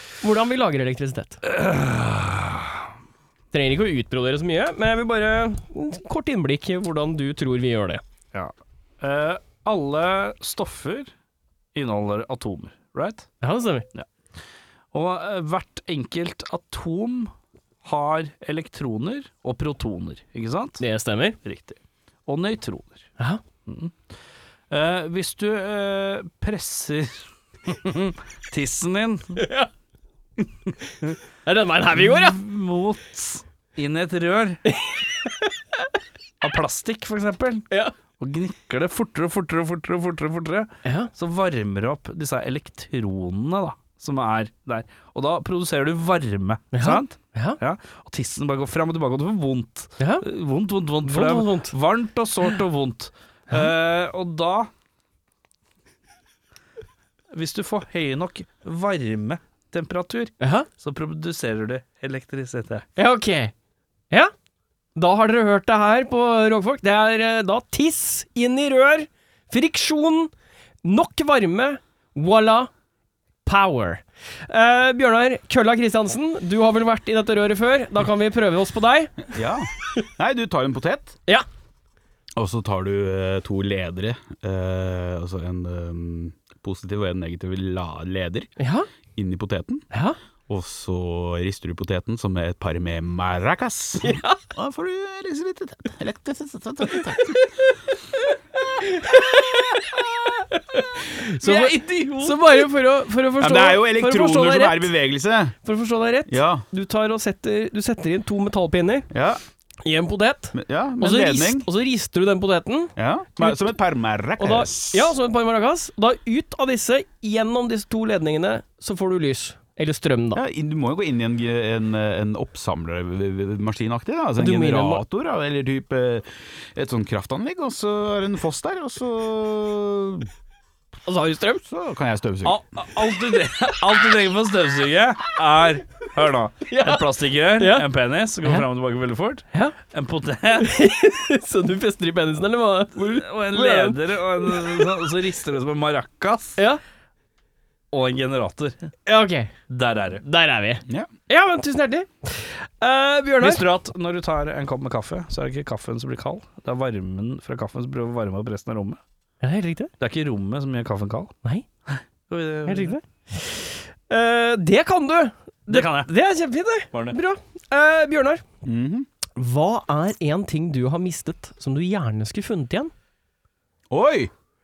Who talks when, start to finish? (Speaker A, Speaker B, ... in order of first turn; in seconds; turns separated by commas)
Speaker A: 0.2-1.4, Speaker B: 1.4-2.8, Speaker A: 3.5-8.0, Speaker B: 8.3-11.1, Speaker B: 11.7-13.3, Speaker A: 13.4-13.8, Speaker B: 14.9-17.3, Speaker B: 17.8-20.8, Speaker A: 20.8-21.4, Speaker B: 21.4-23.1, Speaker B: 23.6-23.9, Speaker B: 24.7-29.4, Speaker A: 29.4-29.7, Speaker A: 31.4-32.4, Speaker B: 31.9-34.6, Speaker A: 34.7-35.8, Speaker B: 36.4-54.7, Speaker A: 40.8-41.1, Speaker A: 46.7-47.6, Speaker A: 50.0-50.2, Speaker A: 51.0-51.8, Speaker B: 57.3-62.9, Speaker A: 60.4-60.7, Speaker A: 63.0-63.5, Speaker A: 65.0-70.3, Speaker A: 70.8-72.7, Speaker A: 73.4-79.3, Speaker C: 79.3-81.2, Speaker C: 82.3-88.5, Speaker A: 88.6-88.9, Speaker C: 89.1-89.8, Speaker C: 90.5-97.4, Speaker A: 94.0-94.4, Speaker A: 98.8-104.9, Speaker B: 101.4-102.4, Speaker C: 103.4-105.6, Speaker A: 105.6-109.1, Speaker C: 106.3-106.6, Speaker C: 109.1-109.4, Speaker A: 109.8-113.7, Speaker C: 110.5-111.7, Speaker C: 113.0-115.1, Speaker A: 114.4-120.4, Speaker C: 120.3-130.3, Speaker A: 124.4-125.0, Speaker A: 131.1-131.6, Speaker C: 131.7-132.6, Speaker B: 132.4-140.7, Speaker A: 136.7-137.9, Speaker A: 140.6-144.9, Speaker B: 142.9-146.6, Speaker B: 147.9-148.9, Speaker A: 149.1-149.5, Speaker B: 149.7-150.2, Speaker A: 150.2-153.7, Speaker B: 153.4-159.0, Speaker A: 159.4-159.9, Speaker B: 160.0-161.3, Speaker B: 161.9-163.0, Speaker A: 162.7-168.4, Speaker B: 165.7-166.1, Speaker C: 168.6-169.1, Speaker A: 169.3-172.9, Speaker C: 173.9-174.3